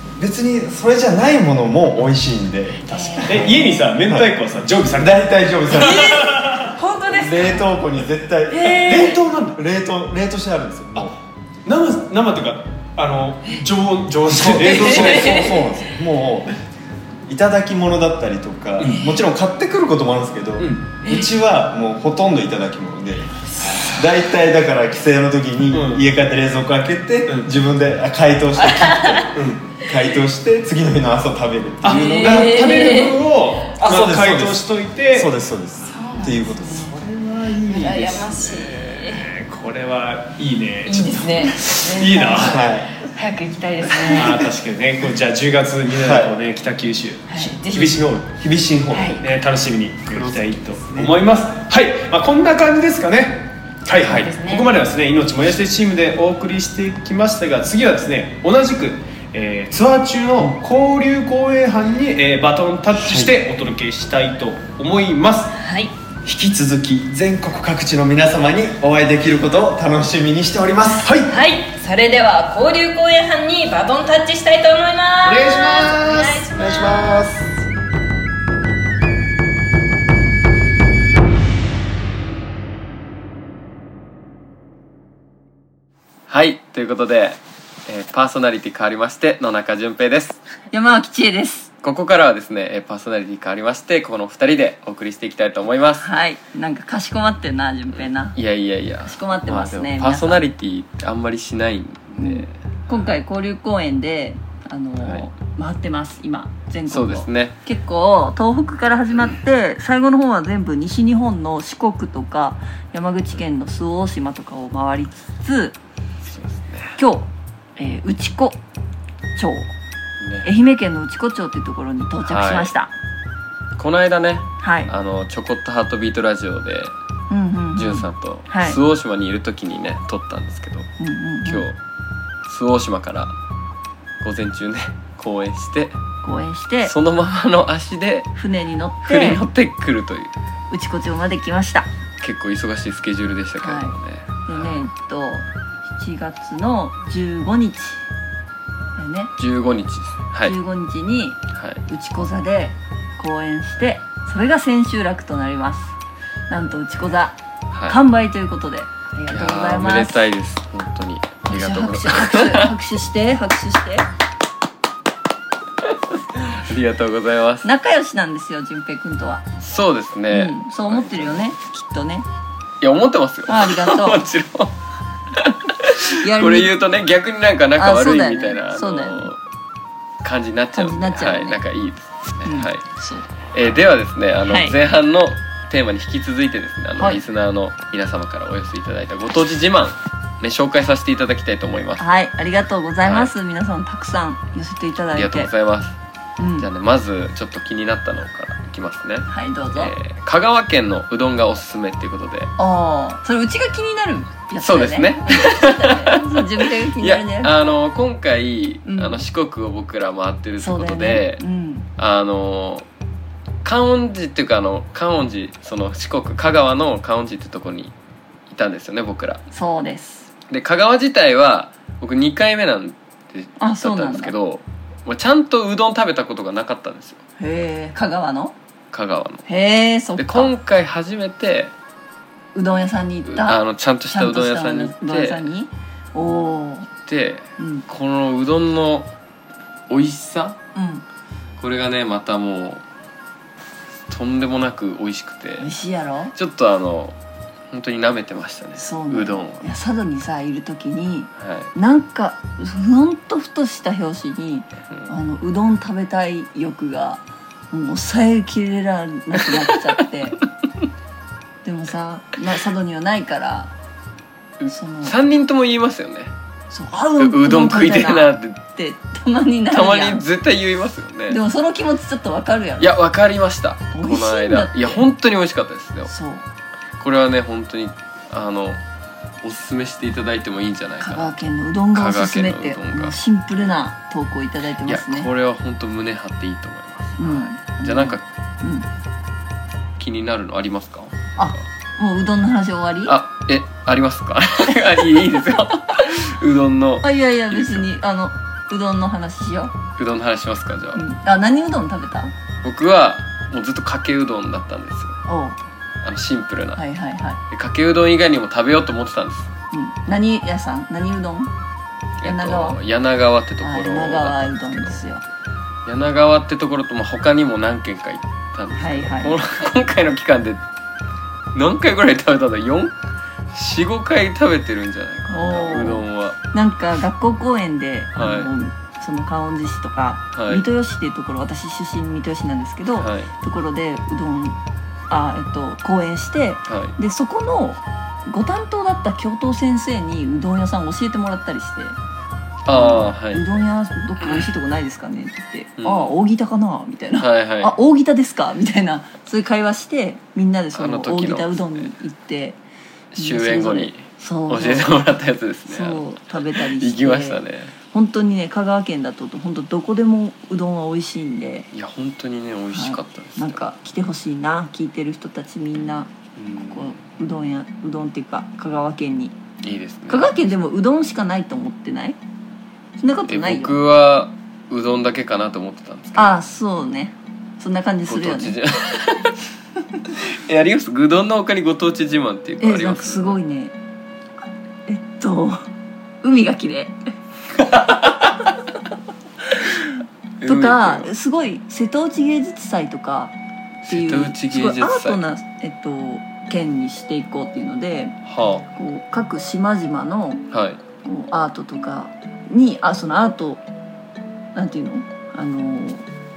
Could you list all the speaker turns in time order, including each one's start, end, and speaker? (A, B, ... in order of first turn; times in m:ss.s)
0:00.2-0:04.3 A
0:02.9-0:03.9 B
0:03.2-0:05.2 C
0:04.9-0:06.4 A
0:05.8-0:06.7 C
0:05.8-0:07.7 B
0:07.1-0:11.2 A
0:08.5-0:09.2 B
0:08.6-0:09.6 C
0:11.0-0:15.5 C
0:14.3-0:16.6 A
0:14.6-0:15.7 B
0:17.3-0:32.8 A
0:18.8-0:19.1 C
0:20.6-0:21.0 C
0:23.6-0:24.0 C
0:25.7-0:26.0 C
0:27.3-0:27.5 C
0:28.6-0:29.3 B
0:29.3-0:29.6 C
0:31.8-0:35.3 C
0:31.8-0:33.3 B
0:33.8-0:38.2 A
0:35.8-0:37.0 B
0:37.5-0:42.6 C
0:37.7-0:39.3 B
0:40.8-0:44.5 B
0:42.4-0:43.0 A
0:44.0-0:48.3 C
0:45.9-0:46.4 A
0:47.3-0:48.0 B
0:48.4-0:49.2 A
0:48.9-0:49.2 B
0:49.2-1:05.6 C
0:50.1-0:51.2 A
0:54.0-0:54.8 B
1:03.0-1:03.3 A
1:05.6-1:05.9 B
1:06.2-1:11.2 A
1:11.0-1:11.3 C
1:11.3-1:17.3 B
1:15.2-1:17.5 A
1:26.3-1:30.4 D
1:30.7-1:31.7 E
1:31.8-1:36.1 D
1:36.0-1:38.4 E
1:37.9-1:43.0 D
1:39.0-1:40.4 E
1:42.2-1:55.8 E
1:46.9-1:47.6 D
1:56.2-1:57.0 D
1:57.0-1:58.6 E
1:59.4-1:59.7 E
2:00.2-2:00.5 D
2:00.4-2:02.9 E
2:02.2-2:02.7 D
2:03.8-2:07.0 D
2:04.6-2:04.9 E
2:07.3-2:08.8 E
2:07.8-2:10.9 D
2:11.0-2:11.7 E
2:11.4-2:11.8 D
2:12.5-2:13.3 D
2:14.2-2:16.0 D
2:16.2-2:17.0 E
2:16.8-2:18.3 D
2:18.4-2:19.4 E
2:19.0-2:20.4 D
2:20.7-2:21.9 E
2:22.2-2:24.8 D
2:23.6-2:23.9 E
2:24.5-2:28.1 E
2:29.0-2:29.3 E
2:29.4-2:30.6 D
2:30.4-2:36.0 E
2:31.5-2:31.8 D
2:36.5-2:37.4 E
2:37.7-2:38.0 D
2:37.9-2:40.2 E
2:39.3-2:42.7 D
2:41.5-2:44.1 E
2:46.4-2:47.7 D
2:47.6-2:49.5 E
2:49.6-2:51.5 D
2:50.3-2:52.3 E
2:52.8-2:54.8 D
2:53.5-2:54.2 E
2:55.3-2:59.4 D
2:56.2-2:56.7 E
2:57.8-2:59.3 E
3:00.2-3:02.8 D
3:00.7-3:01.6 E
3:02.4-3:03.3 E
3:03.5-3:12.0 D
3:04.4-3:04.8 E
3:07.0-3:07.2 E
3:12.0-3:15.5 E
3:13.0-3:13.3 D
3:15.1-3:16.0 D
3:16.4-3:16.7 E
3:16.6-3:22.6 D
3:19.3-3:19.9 E
3:22.6-3:27.7 E
3:24.6-3:31.4 D
3:28.8-3:29.2 E
3:30.6-3:31.9 E
3:32.0-3:32.9 D
3:33.6-3:37.9 D
3:38.5-3:39.4 D
3:39.5-3:40.3 E
3:40.5-3:47.2 D
3:43.6-3:44.3 E
3:47.4-3:48.6 E
3:48.9-3:49.5 D
3:49.5-3:50.5 E
3:50.2-3:51.7 D
3:52.5-3:56.9 E
3:53.3-3:55.4 D
3:57.1-3:59.1 D
3:57.6-3:57.8 E
3:59.9-4:00.6 D
4:00.8-4:01.0 E
4:01.6-4:02.8 D
4:04.1-4:05.7 D
4:05.6-4:06.3 E
4:06.4-4:07.2 D
4:07.7-4:09.6 D
4:08.8-4:20.4 E
4:11.4-4:11.7 D
4:21.6-4:23.7 E
4:24.6-4:26.3 D
4:24.7-4:25.2 E
4:26.7-4:30.2 E
4:27.2-4:28.6 D
4:29.7-4:31.4 D
4:31.3-4:33.0 E
4:32.8-4:36.1 D
4:33.9-4:35.0 E
4:36.1-4:36.4 E
4:37.0-4:38.8 D
4:39.4-4:41.4 D
4:41.0-4:45.3 E
4:41.9-4:43.2 D
4:44.9-4:48.2 D
4:47.2-4:48.9 E
4:50.0-4:51.2 D
4:51.4-4:53.2 E
4:53.1-4:57.9 D
4:57.0-4:59.8 E
5:00.0-5:01.0 D
5:01.0-5:02.3 E
5:02.6-5:05.2 D
5:05.3-5:05.6 E
5:06.0-5:06.8 D
5:06.8-5:07.4 E
5:07.5-5:09.5 D
5:09.7-5:11.5 E
5:12.2-5:15.0 D
5:12.2-5:12.8 E
5:13.6-5:15.2 E
5:15.9-5:20.6 D
5:18.8-5:19.4 E
5:21.5-5:22.9 D
5:23.5-5:26.4 D
5:25.3-5:42.0 E
5:28.2-5:28.5 D
5:30.3-5:30.6 D
5:33.0-5:33.3 D
5:36.7-5:37.0 D
5:42.6-5:43.5 D
5:42.7-5:52.6 E
5:45.8-5:46.1 D
5:47.2-5:47.8 D
5:50.8-5:51.9 D
5:53.1-5:57.7 D
5:53.2-5:55.0 E
5:55.7-5:57.4 E
5:57.9-6:01.7 E
6:01.7-6:03.6 D
6:02.7-6:09.4 E
6:06.4-6:07.0 D
6:09.6-6:10.4 D
6:10.1-6:12.2 E
6:13.0-6:13.8 E
6:13.3-6:16.3 D
6:16.2-6:18.6 E
6:18.1-6:19.4 D
6:20.1-6:23.4 D
6:22.6-6:23.8 E
6:24.4-6:25.7 E
6:26.2-6:27.0 E
6:27.6-6:28.4 D
6:29.6-6:29.8 E
6:30.4-6:31.1 D
6:30.4-6:33.4 E
6:33.8-6:35.2 D
6:33.9-6:38.2 E
6:38.2-6:38.7 D
6:38.7-6:40.4 E
6:40.5-6:40.8 D
6:41.0-6:43.6 E
6:44.6-6:46.1 E